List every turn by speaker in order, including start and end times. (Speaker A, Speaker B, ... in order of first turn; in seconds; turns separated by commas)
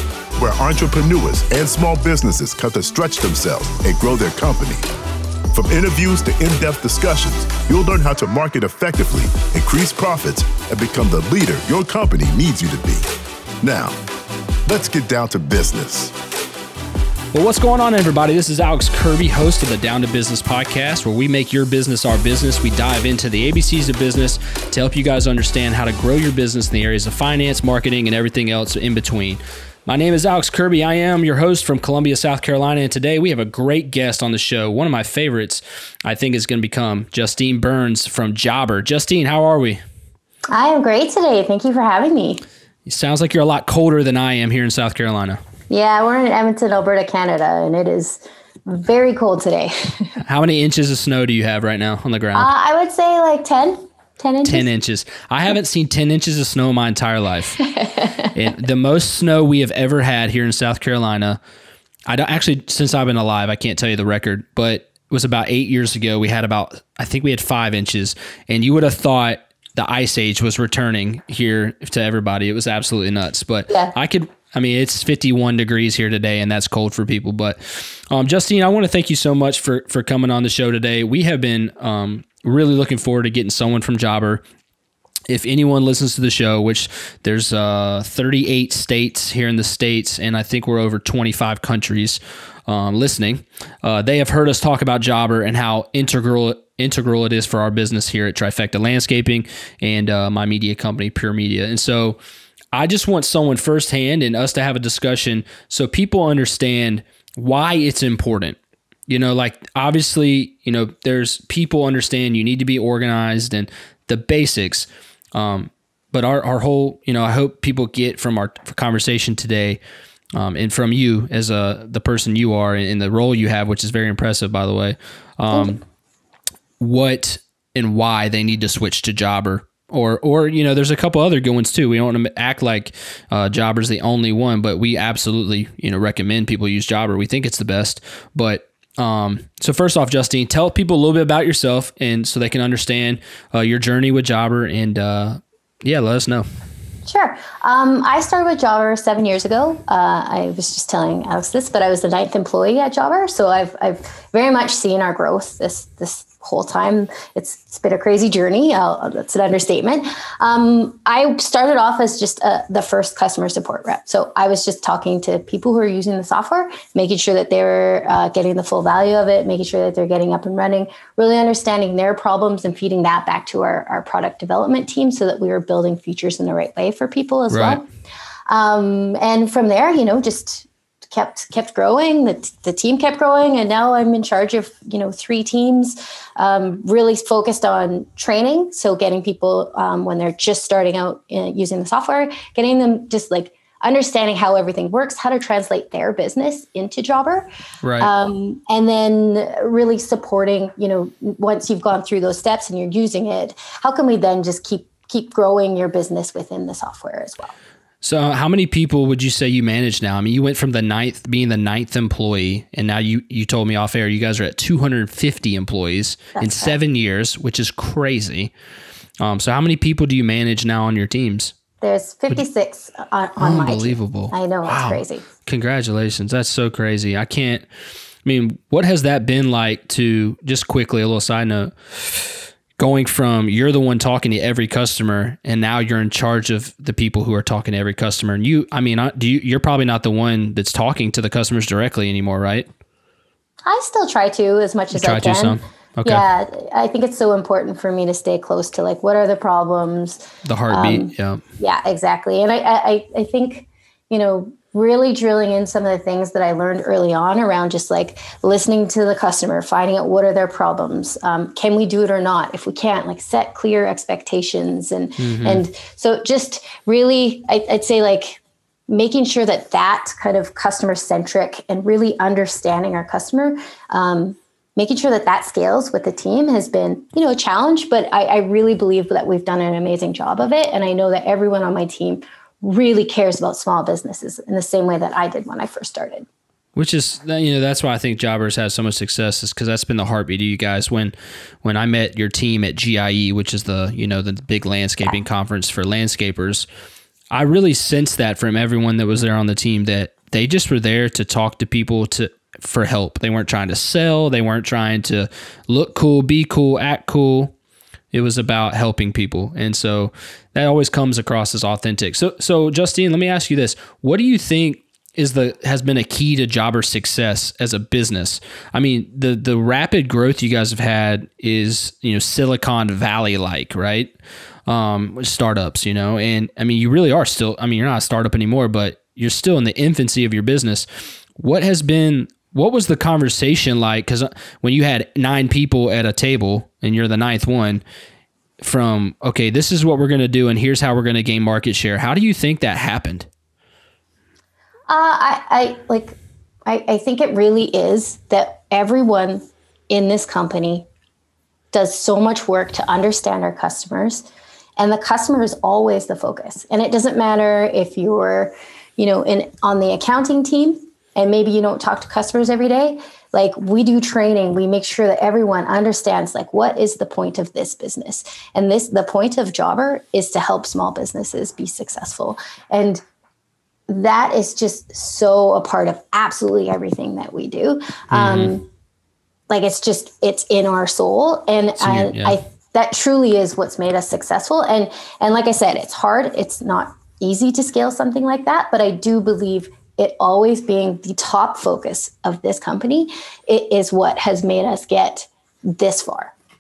Speaker A: 0.4-4.9, Speaker A: 5.5-13.1, Speaker A: 13.6-14.0, Speaker A: 14.7-16.1, Speaker B: 17.3-39.8, Speaker C: 40.5-42.4, Speaker B: 42.9-45.4, Speaker C: 45.7-50.2, Speaker B: 50.2-52.5, Speaker C: 52.3-54.7, Speaker B: 54.5-57.6, Speaker C: 57.6-58.3, Speaker B: 58.3-61.4, Speaker B: 62.1-84.4, Speaker B: 85.3-102.2, Speaker B: 102.7-119.8, Speaker B: 120.3-125.8, Speaker C: 125.5-125.8, Speaker B: 126.8-146.5, Speaker C: 147.1-177.8, Speaker B: 177.5-177.8, Speaker C: 178.5-197.5, Speaker B: 197.8-198.1, Speaker C: 198.0-207.6, Speaker B: 208.0-218.5, Speaker C: 216.4-216.8, Speaker B: 219.2-221.5, Speaker C: 221.8-225.3, Speaker B: 223.4-227.7, Speaker B: 228.2-242.7, Speaker C: 243.7-286.3, Speaker B: 244.9-246.2, Speaker B: 250.4-251.4, Speaker B: 265.2-265.6, Speaker B: 286.8-296.7, Speaker B: 297.3-307.5, Speaker B: 308.1-324.1, Speaker B: 324.7-330.9, Speaker B: 331.4-337.8, Speaker B: 338.6-343.3, Speaker C: 344.9-350.9, Speaker C: 351.7-354.3, Speaker C: 354.8-373.0, Speaker C: 373.9-378.7, Speaker B: 378.1-378.5, Speaker C: 379.5-396.3, Speaker B: 381.8-382.4